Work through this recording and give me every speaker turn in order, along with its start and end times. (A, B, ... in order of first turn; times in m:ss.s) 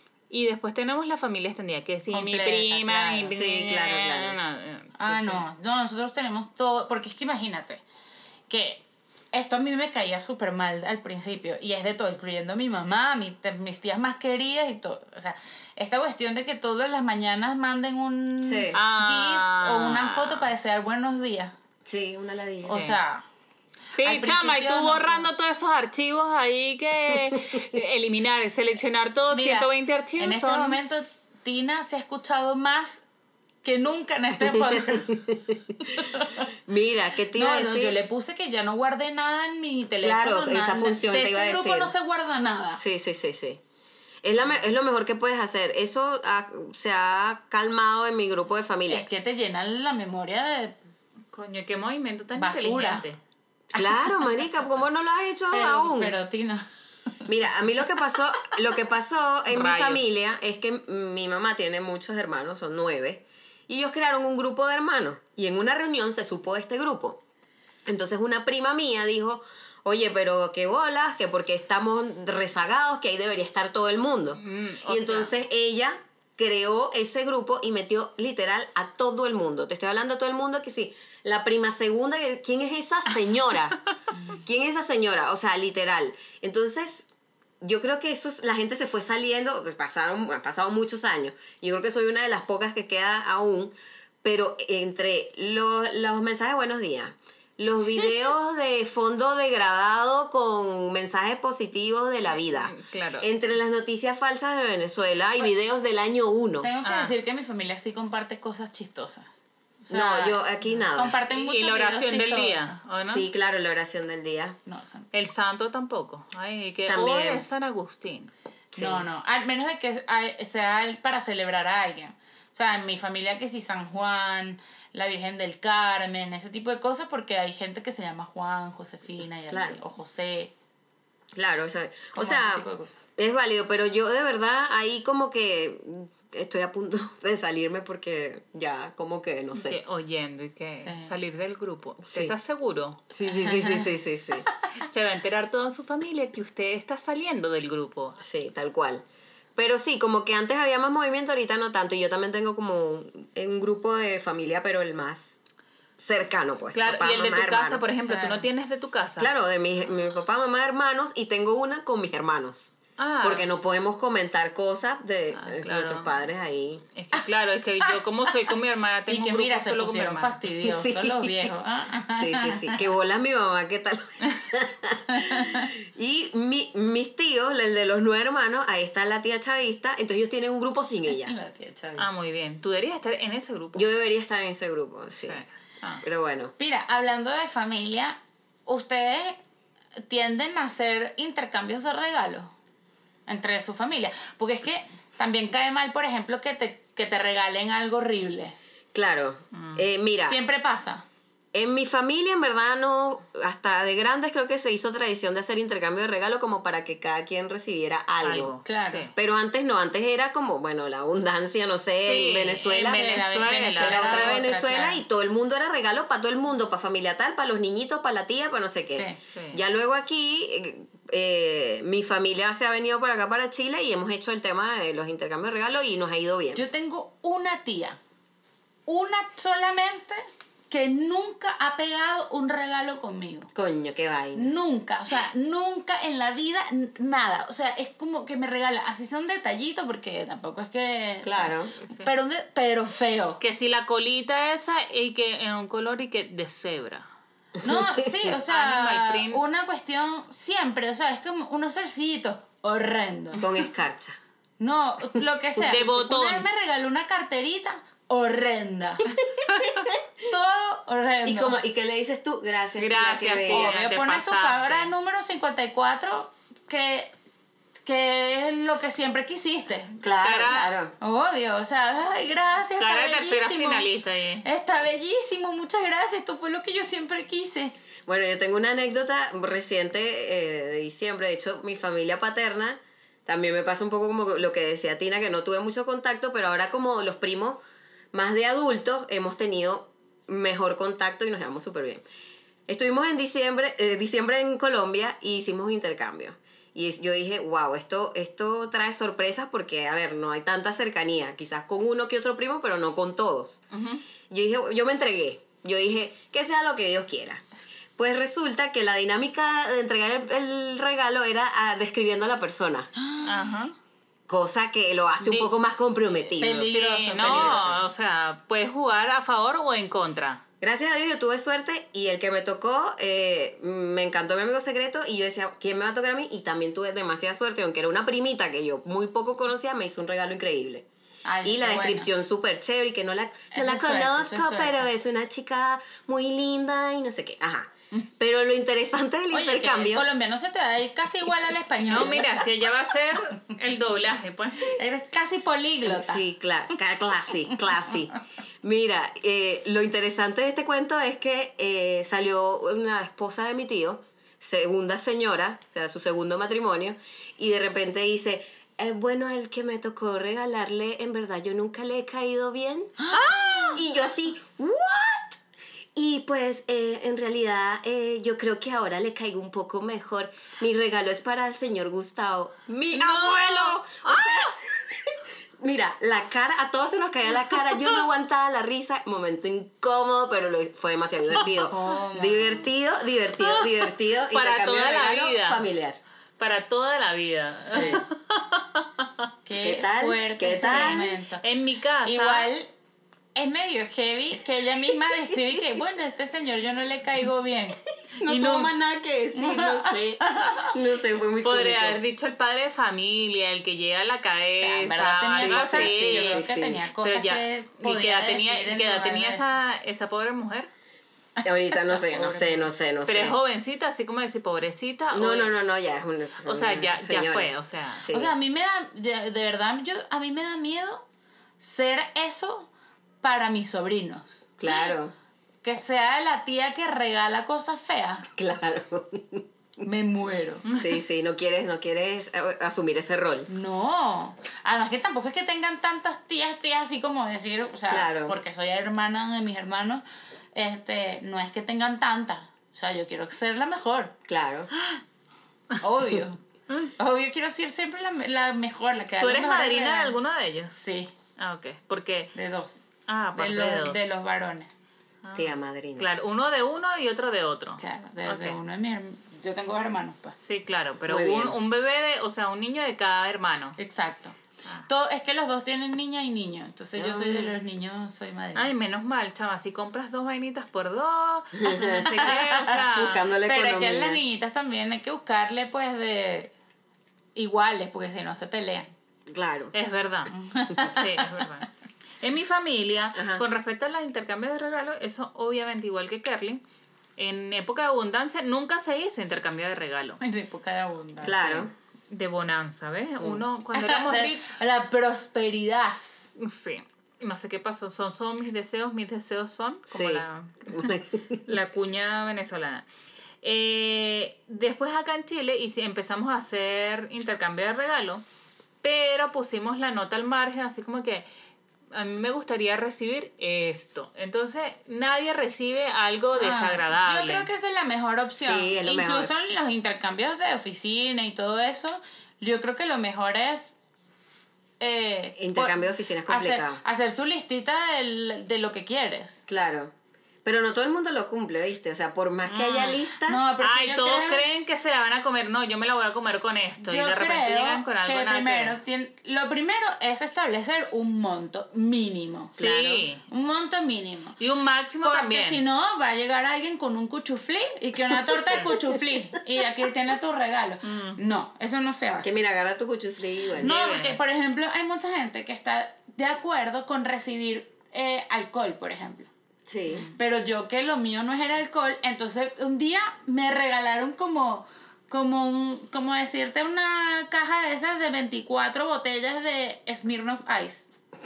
0:00.3-0:05.4 A
0:02.1-0:03.3 B
0:03.3-0:04.4 C
0:05.0-0:07.8 B
0:08.5-0:21.5 B
0:18.4-0:18.8 C
0:18.7-0:20.5 A
0:21.8-0:22.8 C
0:22.6-0:23.2 B
0:22.7-0:23.0 A
0:23.9-0:30.8 A
0:24.0-0:25.3 B
0:29.3-0:33.0 B
0:33.6-0:35.2 B
0:34.5-0:36.0 C
0:35.9-0:36.5 B
0:36.7-0:38.0 C
0:37.3-0:42.8 B
0:40.0-0:41.9 C
0:42.8-0:43.6 C
0:44.2-0:49.0 C
0:48.9-0:50.8 B
0:51.3-0:53.2 A
0:52.3-0:53.0 B
0:53.7-0:56.1 C
0:55.5-0:56.6 B
0:57.2-1:07.2 C
0:59.5-1:00.0 A
1:07.9-1:23.8 C
1:14.4-1:15.3 A
1:24.1-1:24.4 B
1:24.3-1:27.1 C
1:27.6-1:46.7 C
1:42.4-1:43.3 A
1:46.6-1:50.4 B
1:46.8-1:47.1 A
1:49.9-1:51.2 C
1:50.9-1:52.7 B
1:51.3-1:53.2 A
1:53.0-1:54.6 C
1:54.6-1:55.1 B
1:55.1-1:58.3 A
1:56.8-1:57.4 C
1:58.7-1:59.0 C
1:58.8-2:10.5 B
2:09.5-2:09.8 C
2:11.3-2:12.6 C
2:12.1-2:13.0 B
2:13.2-2:19.8 C
2:19.5-2:23.0 A
2:20.8-2:21.1 B
2:22.0-2:22.3 C
2:23.1-2:24.5 C
2:23.4-2:23.8 B
2:24.8-2:28.2 A
2:28.2-2:29.0 C
2:29.6-2:35.4 C
2:36.0-2:37.8 C
2:36.7-2:39.3 A
2:38.0-2:38.5 B
2:39.2-2:46.8 C
2:43.0-2:43.5 A
2:45.3-2:46.1 A
2:46.9-2:50.4 A
2:49.1-2:52.8 B
2:50.6-2:51.5 C
2:52.1-3:01.3 C
2:55.1-2:55.7 B
3:01.1-3:02.1 B
3:02.0-3:03.8 A
3:03.7-3:05.4 C
3:05.2-3:06.0 A
3:06.0-3:06.5 C
3:06.6-3:09.4 B
3:10.1-3:12.5 B
3:13.3-3:18.5 B
3:18.9-3:20.4 C
3:19.5-3:19.8 A
3:20.3-3:21.0 B
3:21.5-3:28.5 C
3:28.2-3:29.1 A
3:28.6-3:29.1 B
3:29.1-3:33.2 C
3:32.0-3:34.4 A
3:32.7-3:35.0 B
3:33.8-3:46.6 C
3:38.9-3:39.2 B
3:39.3-3:39.6 A
3:46.5-3:48.0 B
3:48.9-3:53.5 B
3:53.5-3:54.6 C
3:54.3-4:03.4 B
4:01.2-4:01.7 C
4:01.8-4:02.1 A
4:03.4-4:07.1 A
4:07.6-4:08.1 C
4:07.6-4:13.6 B
4:08.4-4:09.4 A
4:13.4-4:14.2 C
4:14.6-4:19.1 B
4:15.6-4:16.5 A
4:19.5-4:19.8 A
4:20.3-4:21.6 B
4:21.2-4:23.7 C
4:22.8-4:24.9 A
4:23.4-4:27.1 B
4:27.8-4:30.0 B
4:30.0-4:30.9 C
4:30.2-4:30.7 A
4:31.0-4:33.9 B
4:32.8-4:34.4 A
4:34.4-4:37.7 B
4:38.0-4:47.6 C
4:48.1-4:52.0 C
4:52.7-5:03.6 C
5:03.7-5:04.0 A
5:04.3-5:07.4 C
5:08.0-5:12.9 C
5:13.0-5:13.4 B
5:13.2-5:13.7 A
5:14.3-5:17.8 C
5:15.2-5:15.5 A
5:16.4-5:17.8 B
5:16.6-5:20.4 A
5:20.6-5:30.8 C
5:31.2-5:32.1 B
5:31.4-5:40.1 C
5:33.5-5:34.9 B
5:39.3-5:42.4 B
5:41.8-5:44.8 A
5:44.6-5:46.2 B
5:45.8-6:02.9 C
6:03.0-6:03.8 B
6:03.1-6:03.8 A
6:03.7-6:05.4 C
6:05.9-6:26.0 C
6:12.9-6:14.5 A
6:21.6-6:22.6 B
6:23.4-6:25.6 A
6:26.4-6:29.1 A
6:27.7-6:28.0 C
6:27.7-6:28.0 B
6:29.4-6:31.4 B
6:29.6-6:31.1 C
6:30.6-6:32.5 A
6:32.0-6:32.7 B
6:33.3-6:37.8 B
6:38.2-6:42.0 C
6:38.2-6:38.7 A
6:39.3-6:40.7 B
6:41.4-6:46.4 A
6:44.6-6:49.5 B
6:45.3-6:46.8 C
6:47.0-6:50.7 A
6:51.4-6:53.4 C
6:51.7-6:52.7 B
6:53.1-6:55.5 A
6:55.1-6:58.3 C
6:56.4-6:58.1 A
6:58.1-7:01.0 B
7:01.6-7:02.7 B
7:03.2-7:04.8 B
7:04.6-7:05.1 C
7:05.6-7:08.3 B
7:08.3-7:09.4 C
7:09.8-7:10.7 B
7:10.7-7:13.5 C
7:13.5-7:20.0 B
7:17.9-7:18.4 C
7:20.5-7:24.1 B
7:24.3-7:24.7 C
7:25.8-7:26.4 B
7:27.0-7:30.2 B
7:29.2-7:30.7 A
7:30.7-7:31.1 B
7:31.4-7:32.3 A
7:32.3-7:32.8 B
7:33.1-7:34.1 A
7:33.3-7:34.7 B
7:35.2-7:38.6 A
7:35.3-7:36.1 C
7:37.8-7:40.3 B
7:40.4-7:43.8 A
7:41.1-7:41.6 C
7:43.8-7:44.4 B
7:44.9-7:48.7 B
7:47.0-7:47.5 C
7:48.5-7:53.2 A
7:51.6-7:52.3 C
7:52.0-7:52.8 B
7:52.9-7:54.2 C
7:53.4-7:56.5 B
7:57.3-7:58.9 B
7:59.3-7:59.7 C
7:59.7-8:01.7 A
8:00.4-8:01.3 B
8:02.2-8:06.6 A
8:03.1-8:03.4 C
8:07.2-8:10.2 A
8:10.2-8:11.7 B
8:11.2-8:11.7 C
8:12.1-8:14.5 A
8:13.7-8:16.3 B
8:16.4-8:22.8 A
8:19.9-8:21.4 C
8:23.4-8:28.2 A
8:28.8-8:31.2 A
8:31.9-8:37.5 A
8:36.3-8:43.7 B
8:38.4-8:39.3 C
8:44.8-8:49.4 B
8:45.4-8:46.8 C
8:49.5-8:49.9 C
8:50.4-8:53.4 C
8:52.4-8:53.0 A
8:53.2-8:54.4 B
8:53.6-8:58.8 A
8:56.8-9:04.4 B
9:02.6-9:03.2 A
9:04.4-9:05.6 A
9:05.0-9:12.3 B
9:10.8-9:11.2 A
9:12.2-9:13.7 C
9:13.6-9:14.2 A
9:13.6-9:19.3 B
9:19.6-9:20.0 C
9:19.9-9:20.2 A
9:20.1-9:30.9 B